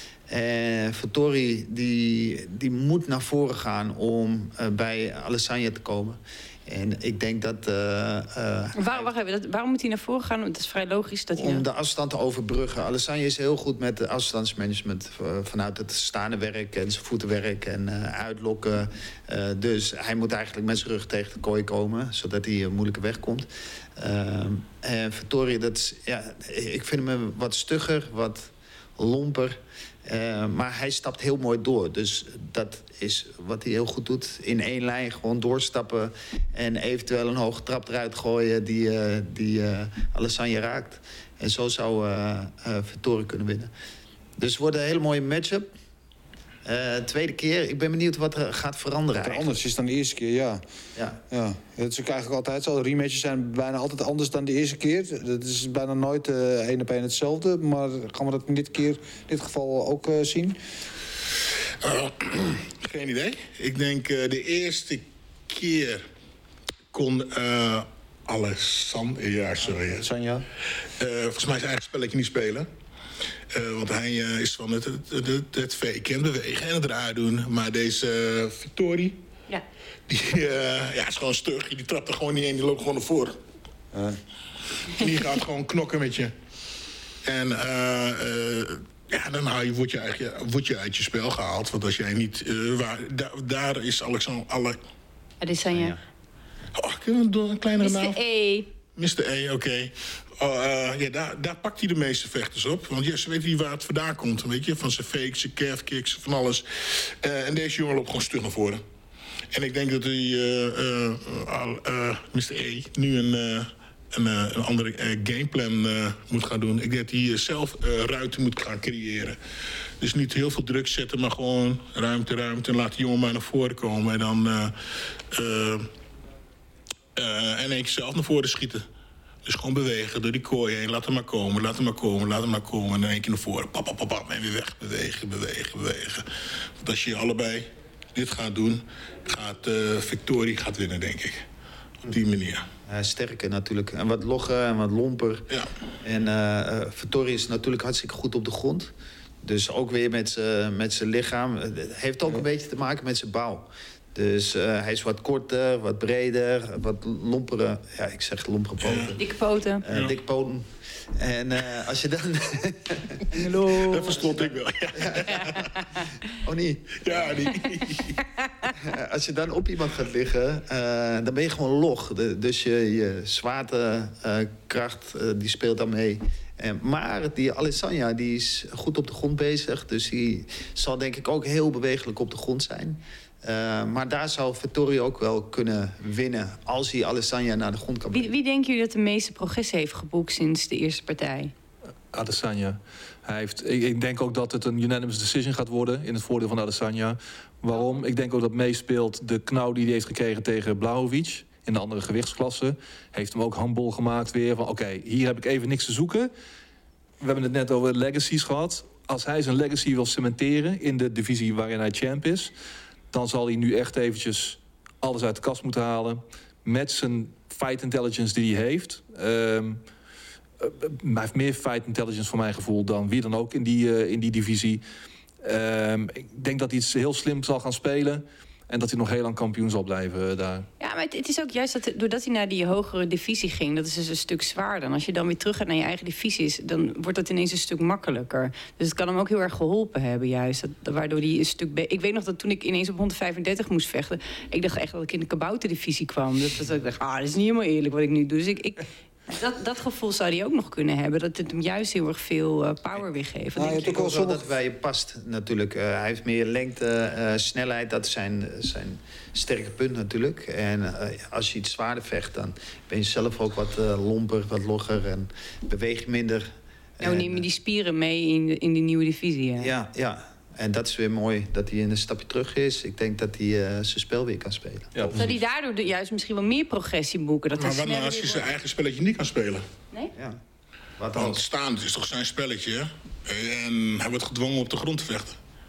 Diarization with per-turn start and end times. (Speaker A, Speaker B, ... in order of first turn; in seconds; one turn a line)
Speaker A: 0.3-9.1
Speaker B: 8.8-11.7
Speaker A: 11.4-43.7
Speaker A: 44.4-45.7
Speaker A: 46.7-49.6
Speaker C: 49.2-50.6
Speaker C: 51.3-60.6
Speaker D: 61.8-66.0
Speaker D: 66.9-70.1
Speaker C: 69.7-70.5
Speaker D: 71.0-72.7
Speaker D: 73.5-79.2
Speaker D: 80.1-83.4
Speaker C: 83.9-84.2
Speaker D: 84.9-86.3
Speaker D: 87.2-94.8
Speaker B: 95.4-96.0
Speaker A: 95.7-96.0
Speaker D: 96.8-98.2
Speaker B: 97.8-98.7
Speaker D: 99.0-108.8
Speaker D: 109.5-119.4
Speaker D: 120.0-124.8
Speaker D: 125.3-125.9
Speaker D: 127.2-128.8
Speaker D: 129.4-136.3
Speaker D: 136.8-141.4
Speaker D: 142.0-142.7
Speaker A: 142.9-145.5
Speaker A: 146.0-148.9
Speaker A: 149.4-159.2
Speaker D: 158.8-159.2
Speaker B: 159.2-159.8
Speaker A: 159.8-165.5
Speaker D: 159.9-160.2
Speaker B: 163.3-164.3
Speaker D: 163.8-165.7
Speaker B: 165.3-166.1
Speaker A: 166.4-167.5
Speaker D: 167.0-168.2
Speaker B: 168.4-168.7
Speaker A: 168.8-188.3
Speaker B: 188.1-191.5
Speaker E: 192.1-206.3
Speaker E: 207.2-212.5
Speaker E: 213.1-219.8
Speaker E: 220.6-224.8
Speaker E: 225.4-230.7
Speaker B: 230.8-253.9
Speaker C: 253.6-254.5
Speaker A: 253.8-267.4
Speaker B: 267.0-269.7
Speaker A: 269.6-275.3
Speaker E: 274.9-275.3
Speaker B: 275.1-278.5
Speaker D: 277.6-279.6
Speaker A: 280.1-280.4
Speaker A: 281.0-281.4
Speaker D: 281.1-285.4